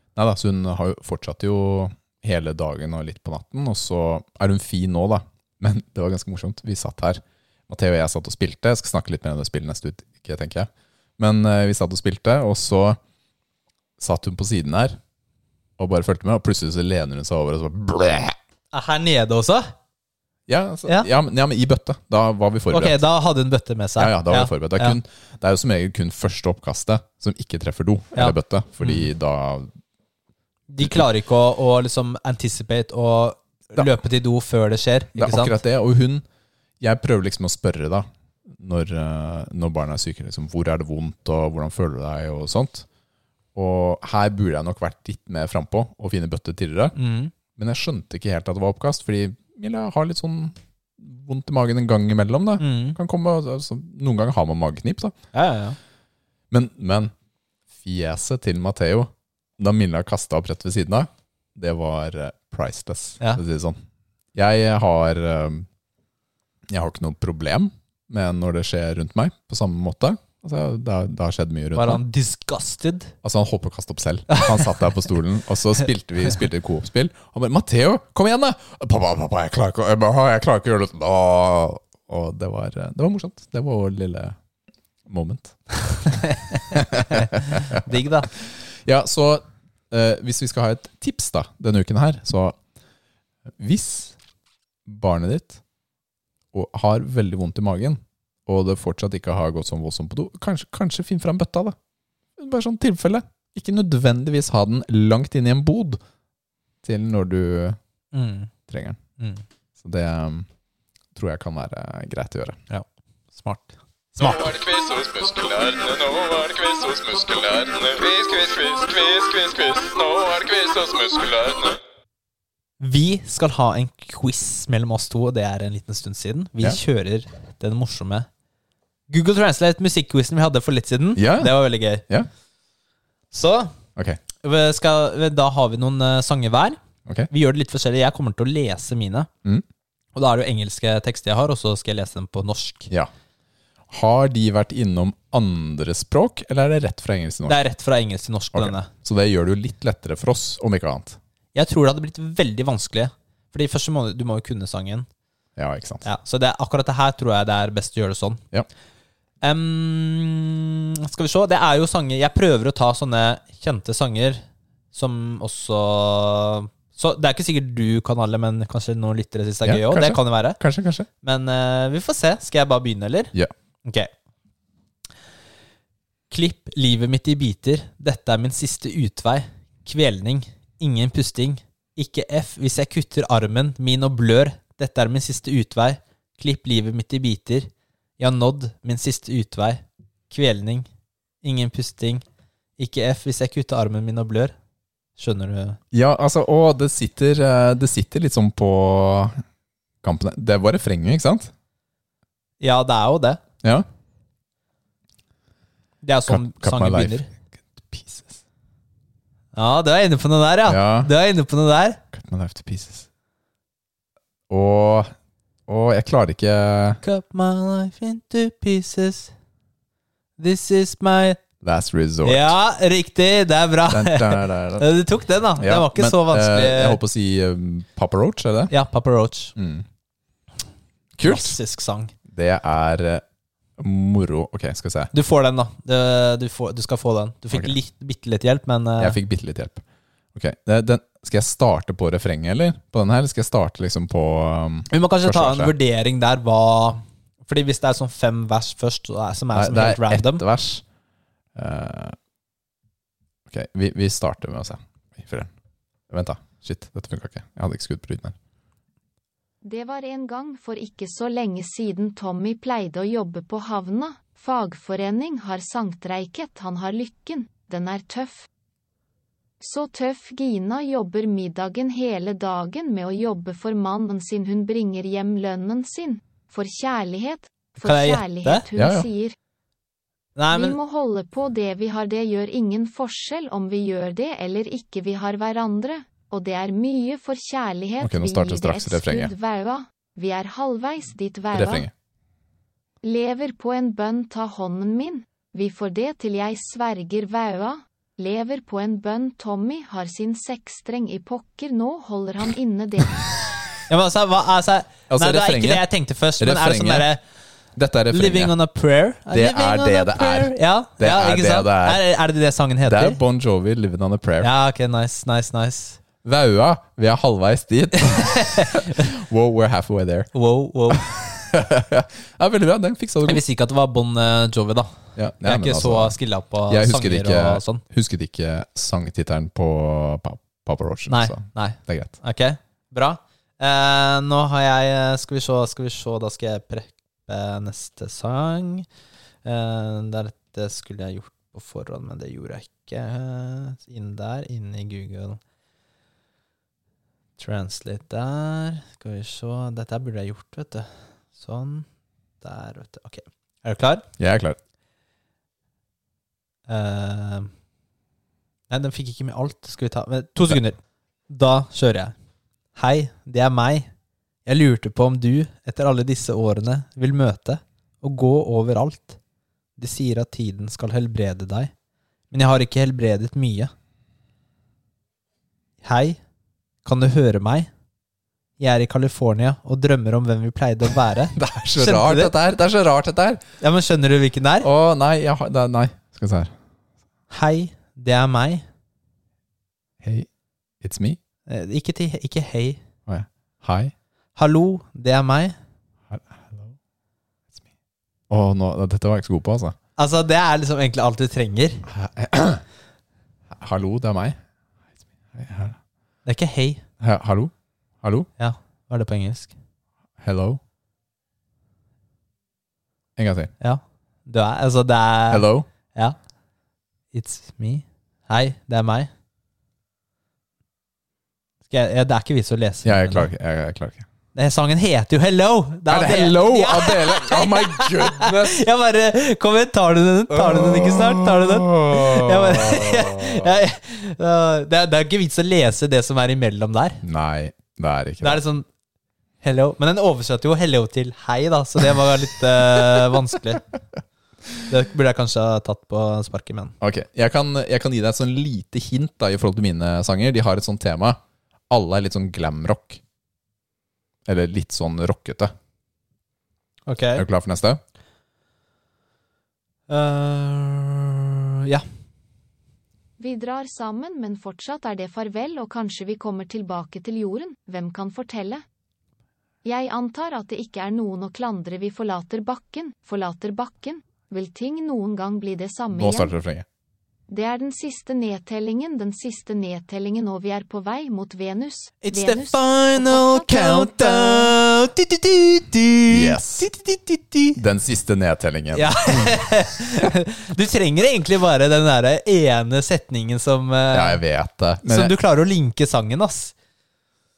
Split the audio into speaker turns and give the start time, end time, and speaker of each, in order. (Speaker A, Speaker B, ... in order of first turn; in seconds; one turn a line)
Speaker A: 0.1-13.0
Speaker A: 14.0-15.0
Speaker A: 15.8-18.4
Speaker B: 18.7-19.7
Speaker A: 20.5-23.0
Speaker B: 22.7-25.0
Speaker A: 24.0-29.7
Speaker B: 28.1-29.1
Speaker B: 30.7-35.6
Speaker A: 35.1-36.2
Speaker A: 36.8-42.9
Speaker A: 43.5-47.0
Speaker B: 47.0-47.3
Speaker A: 47.5-55.1
Speaker B: 52.6-53.0
Speaker B: 55.3-55.8
Speaker A: 56.5-57.1
Speaker A: 57.8-63.8
Speaker A: 64.3-65.7
Speaker A: 66.7-72.0
Speaker B: 71.8-73.1
Speaker A: 73.2-84.4
Speaker B: 74.3-74.8
Speaker A: 85.1-85.6
Speaker B: 86.0-88.3
Speaker A: 86.7-92.6
Speaker A: 93.6-94.2
Speaker A: 94.9-95.6
Speaker A: 96.5-101.8
Speaker A: 102.4-106.0
Speaker A: 106.8-107.8
Speaker B: 108.1-108.5
Speaker A: 108.7-109.0
Speaker A: 109.8-110.5
Speaker A: 111.1-112.6
Speaker B: 112.7-114.6
Speaker C: 114.6-121.7
Speaker A: 115.0-115.8
Speaker A: 117.2-117.5
Speaker B: 122.8-128.3
Speaker B: 129.1-132.1
Speaker A: 131.2-131.6
Speaker B: 133.3-133.7
Speaker B: 134.4-139.3
Speaker B: 140.2-142.9
Speaker A: 143.9-147.6
Speaker B: 147.5-148.9
Speaker A: 148.5-151.2
Speaker B: 151.6-155.1
Speaker A: 155.6-156.1
Speaker B: 156.0-158.4
Speaker B: 159.4-170.6
Speaker A: 169.6-171.1
Speaker B: 171.2-174.1
Speaker B: 176.3-187.7
Speaker B: 188.2-190.9
Speaker B: 191.4-192.2
Speaker B: 192.8-194.5
Speaker B: 195.2-195.8
Speaker A: 195.9-199.4
Speaker A: 200.0-201.5
Speaker B: 202.6-203.4
Speaker B: 206.0-207.3
Speaker A: 206.3-207.2
Speaker A: 207.8-208.4
Speaker B: 209.6-212.0
Speaker A: 210.7-211.1
Speaker A: 212.1-213.1
Speaker A: 214.5-215.1
Speaker A: 215.7-217.0
Speaker B: 217.0-219.3
Speaker B: 220.4-221.4
Speaker A: 221.6-222.6
Speaker B: 222.2-227.0
Speaker A: 223.9-224.9
Speaker A: 225.6-228.7
Speaker B: 228.7-229.6
Speaker A: 229.6-229.8
Speaker A: 231.2-231.6
Speaker B: 231.2-232.1
Speaker A: 232.3-233.2
Speaker A: 233.8-235.1
Speaker B: 235.1-239.2
Speaker A: 239.0-239.8
Speaker A: 240.3-245.7
Speaker B: 244.9-250.4
Speaker A: 249.5-250.8
Speaker A: 251.6-252.2
Speaker A: 253.5-255.5
Speaker A: 256.1-258.4
Speaker D: 259.6-268.5
Speaker D: 269.6-279.4
Speaker B: 277.8-278.6
Speaker A: 278.8-279.1
Speaker B: 280.4-280.8
Speaker D: 280.5-291.9
Speaker A: 288.0-289.3
Speaker A: 291.5-291.9
Speaker D: 293.0-303.3
Speaker B: 303.9-307.2
Speaker A: 305.1-305.8
Speaker A: 306.4-307.1
Speaker A: 307.8-308.6
Speaker B: 308.1-313.2
Speaker A: 309.3-312.0
Speaker A: 312.9-314.5
Speaker B: 314.4-316.0
Speaker A: 316.2-320.3
Speaker B: 318.0-319.1
Speaker B: 320.3-321.2
Speaker A: 320.9-323.4
Speaker B: 323.2-327.8
Speaker A: 325.2-326.1
Speaker A: 326.7-332.1
Speaker B: 331.1-338.9
Speaker B: 339.4-345.4
Speaker B: 347.4-351.9
Speaker B: 352.4-354.0
Speaker A: 354.2-354.6
Speaker B: 356.7-357.5
Speaker B: 358.7-360.8
Speaker B: 361.3-362.1
Speaker B: 362.8-363.9
Speaker B: 364.5-369.2
Speaker B: 369.8-371.7
Speaker B: 372.3-373.7
Speaker B: 375.8-376.2
Speaker B: 376.9-377.7
Speaker B: 378.6-382.3
Speaker A: 381.3-383.4
Speaker B: 383.6-384.7
Speaker A: 384.6-386.5
Speaker B: 387.3-388.6
Speaker A: 390.0-390.3
Speaker A: 390.8-391.2
Speaker B: 391.5-392.8
Speaker A: 393.1-393.9
Speaker B: 394.4-395.6
Speaker A: 396.1-396.8
Speaker A: 398.3-399.8
Speaker B: 400.0-401.9
Speaker A: 401.9-402.6
Speaker A: 403.5-404.4
Speaker A: 405.3-405.8
Speaker B: 406.3-406.8
Speaker A: 407.0-408.3
Speaker B: 408.4-409.5
Speaker A: 410.2-410.6
Speaker A: 413.2-413.5
Speaker B: 413.6-416.2
Speaker A: 415.3-415.7
Speaker B: 417.1-419.1
Speaker B: 421.7-423.3
Speaker A: 422.9-424.1
Speaker B: 424.4-437.0
Speaker A: 425.9-428.6
Speaker A: 430.3-433.6
Speaker A: 437.0-438.4
Speaker B: 438.2-438.7
Speaker B: 439.4-443.6
Speaker B: 444.7-446.8
Speaker A: 446.8-451.2
Speaker A: 451.7-453.0
Speaker A: 454.3-455.5
Speaker B: 456.9-457.2
Speaker A: 457.2-457.8
Speaker B: 459.9-461.9
Speaker D: 463.2-468.6
Speaker D: 469.6-476.3
Speaker A: 475.9-476.6
Speaker D: 477.3-484.3
Speaker B: 482.0-487.6
Speaker A: 486.1-486.7
Speaker A: 487.6-489.4
Speaker B: 488.7-494.2
Speaker A: 493.9-495.1
Speaker B: 494.8-496.5